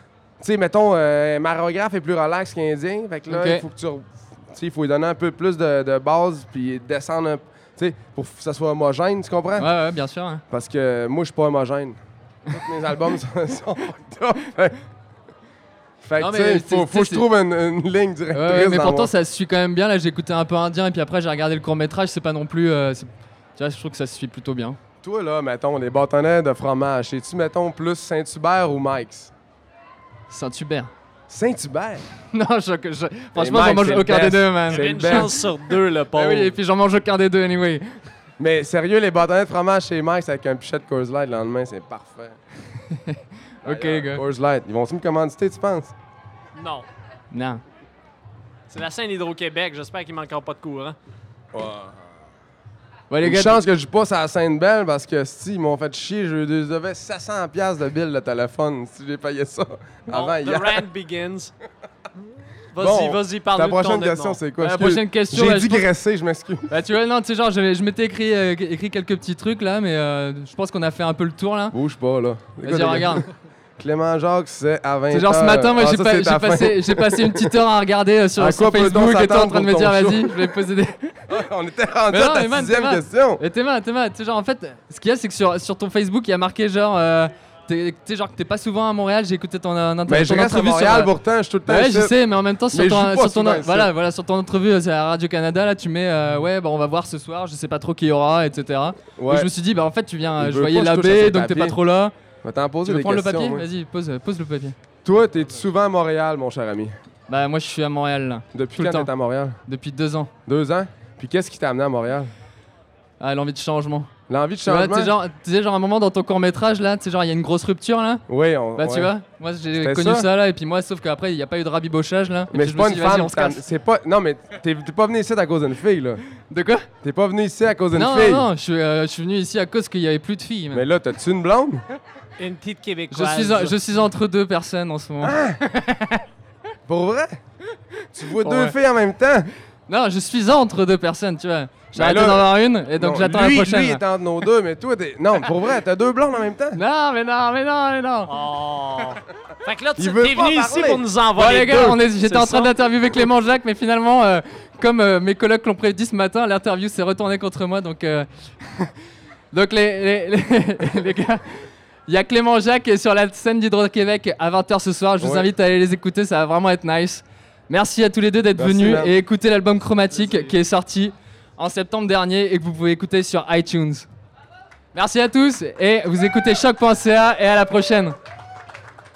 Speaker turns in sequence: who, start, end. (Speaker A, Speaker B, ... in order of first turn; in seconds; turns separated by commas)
Speaker A: 0.4-9.7, Speaker B: 3.3-3.6, Speaker B: 9.6-10.4, Speaker A: 10.5-12.0, Speaker A: 12.5-14.8, Speaker A: 16.0-19.1, Speaker B: 16.2-17.2, Speaker B: 18.3-24.8, Speaker A: 25.0-29.3, Speaker B: 30.3-30.9, Speaker A: 31.3-32.0, Speaker B: 32.3-35.4, Speaker A: 33.4-35.3, Speaker C: 34.7-36.5, Speaker B: 36.1-37.9, Speaker A: 38.4-42.4, Speaker B: 42.9-44.2, Speaker A: 43.6-45.9, Speaker C: 46.5-46.9, Speaker B: 47.3-47.6, Speaker C: 48.7-51.0, Speaker A: 51.5-52.0, Speaker B: 53.1-53.6, Speaker A: 53.2-60.9, Speaker C: 60.1-61.5, Speaker C: 62.7-64.4, Speaker A: 62.8-66.7, Speaker B: 64.6-65.9, Speaker B: 66.7-71.8, Speaker A: 71.7-73.3, Speaker B: 72.6-73.3, Speaker A: 73.8-77.5, Speaker B: 75.1-81.2, Speaker A: 78.4-80.5, Speaker A: 81.3-83.4, Speaker B: 82.1-91.1, Speaker A: 90.1-92.2, Speaker B: 91.7-102.1, Speaker A: 92.7-93.9, Speaker A: 99.2-99.5, Speaker A: 100.4-101.8, Speaker A: 102.4-103.7, Speaker B: 102.8-104.8, Speaker A: 105.0-106.9, Speaker B: 107.3-109.1, Speaker A: 108.5-109.6, Speaker B: 109.7-110.3, Speaker A: 110.5-112.3, Speaker B: 113.2-114.1, Speaker A: 114.3-115.1, Speaker B: 114.6-118.2, Speaker A: 118.3-119.1, Speaker B: 118.8-123.6, Speaker A: 119.8-120.3, Speaker A: 122.5-126.2, Speaker B: 126.5-126.9, Speaker A: 127.0-128.5, Speaker B: 127.9-130.9, Speaker A: 130.7-131.8, Speaker C: 132.4-133.8, Speaker B: 133.1-136.2, Speaker A: 135.2-135.6, Speaker A: 136.9-137.4, Speaker A: 138.1-139.5, Speaker B: 138.4-138.8, Speaker B: 139.9-144.0, Speaker A: 141.9-146.8, Speaker B: 146.8-148.3, Speaker C: 148.3-152.7, Speaker A: 150.0-151.0, Speaker B: 151.4-158.9, Speaker A: 151.6-152.0, Speaker B: 159.5-174.1, Speaker A: 165.2-165.5, Speaker A: 168.6-169.2, Speaker A: 170.1-170.6, Speaker B: 174.9-178.2